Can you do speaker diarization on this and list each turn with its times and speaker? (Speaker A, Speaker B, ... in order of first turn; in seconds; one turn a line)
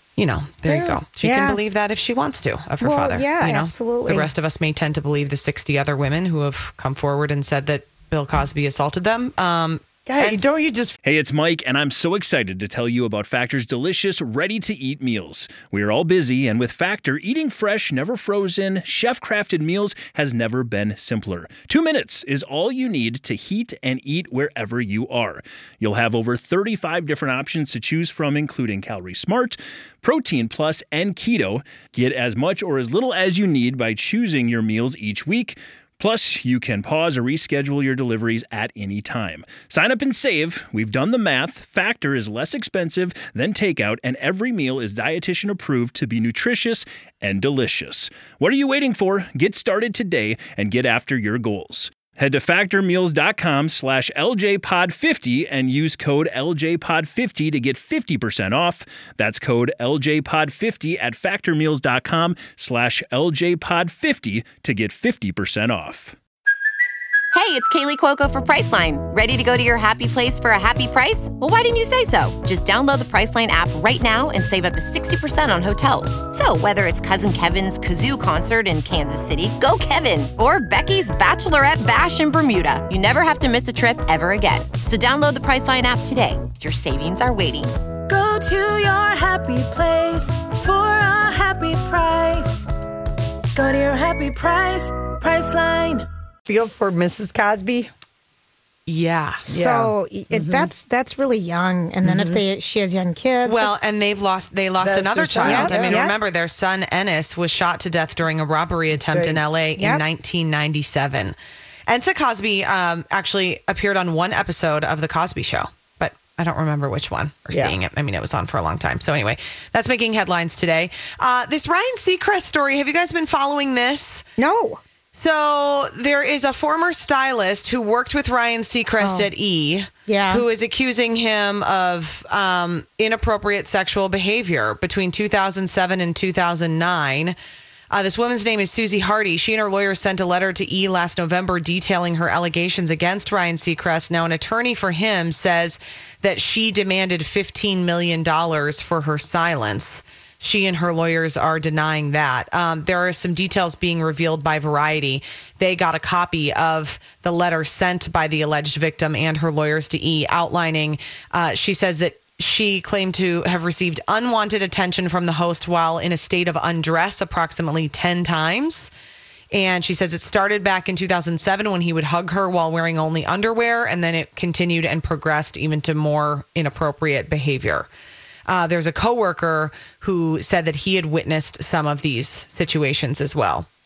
Speaker A: 0.2-10.4
Speaker B: 0.7-1.0
Speaker C: 1.2-1.6
Speaker C: 2.8-4.3
Speaker B: 10.1-11.0
Speaker D: 11.0-66.2
Speaker E: 67.3-87.7
Speaker F: 88.1-92.7
Speaker F: 93.5-96.0
Speaker B: 96.5-97.9
Speaker A: 98.9-99.5
Speaker C: 99.5-103.8
Speaker B: 99.5-100.7
Speaker B: 102.1-102.4
Speaker A: 103.4-111.3
Speaker B: 104.8-106.0
Speaker C: 105.4-106.1
Speaker B: 109.0-109.4
Speaker C: 109.8-110.0
Speaker A: 111.9-124.2
Speaker C: 124.4-124.8
Speaker A: 125.2-137.3
Speaker C: 129.0-129.3
Speaker C: 130.1-130.4
Speaker A: 137.9-168.9
Speaker A: 169.5-177.9
Speaker A: 178.5-183.7